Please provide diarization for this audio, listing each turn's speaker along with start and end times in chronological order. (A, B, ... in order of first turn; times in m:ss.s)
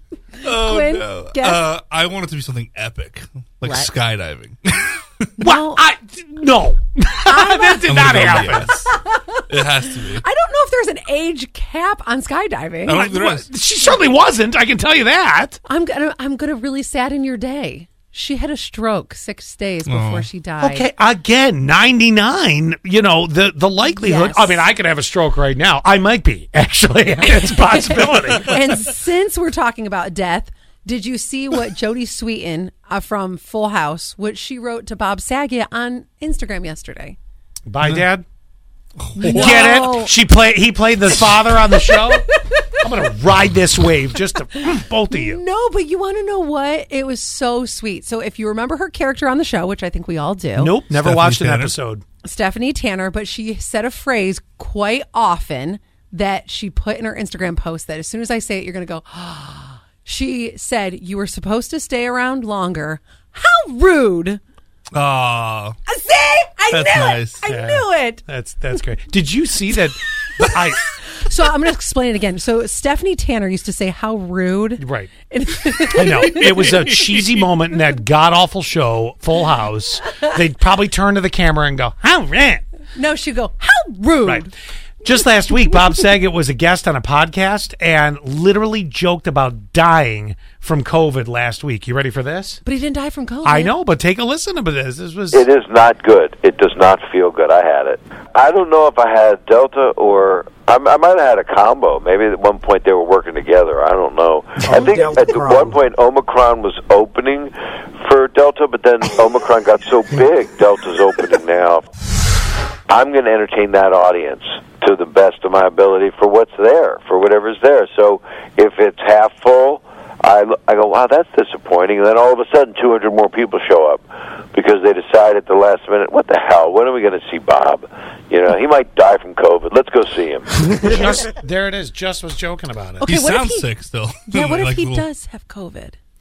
0:00.4-0:01.6 A
0:00.4-0:05.3 B
0:05.4-0:05.8 A
0:05.4-0:08.8 C
0:07.2-0:08.0 A
0:07.9-0:08.7 B
0:08.8-0:09.4 A
0:09.5-0:10.2 B
0:10.0-0:13.1 A
0:12.8-0:13.5 B
0:13.0-0:15.6 C
0:15.6-0:20.9 A
0:19.8-0:20.3 B
0:20.6-0:28.6 C
0:23.9-0:24.6 A
0:27.4-0:37.2 A
0:37.7-0:38.2 C
0:39.0-0:39.8 B
0:39.2-0:40.1 A
0:39.2-0:42.2 C
0:41.6-0:42.9 A
0:42.8-0:45.4 C
0:44.6-0:50.8 A
0:50.6-0:52.0 C
0:50.9-0:51.7 B
0:52.2-1:04.4 A
1:04.9-1:05.8 B
1:05.9-1:08.2 A
1:06.7-1:07.4 B
1:07.5-1:10.8 C
1:10.4-1:16.8 A
1:14.8-1:15.1 C
1:15.9-1:22.6 C
1:22.9-1:24.5 A
1:25.0-1:32.6 C
1:32.6-1:33.7 A
1:33.4-1:35.4 C
1:35.3-1:51.8 D
1:52.9-2:10.6 D
2:10.8-2:13.1 C
2:13.0-2:16.0 A
2:13.0-2:15.0 B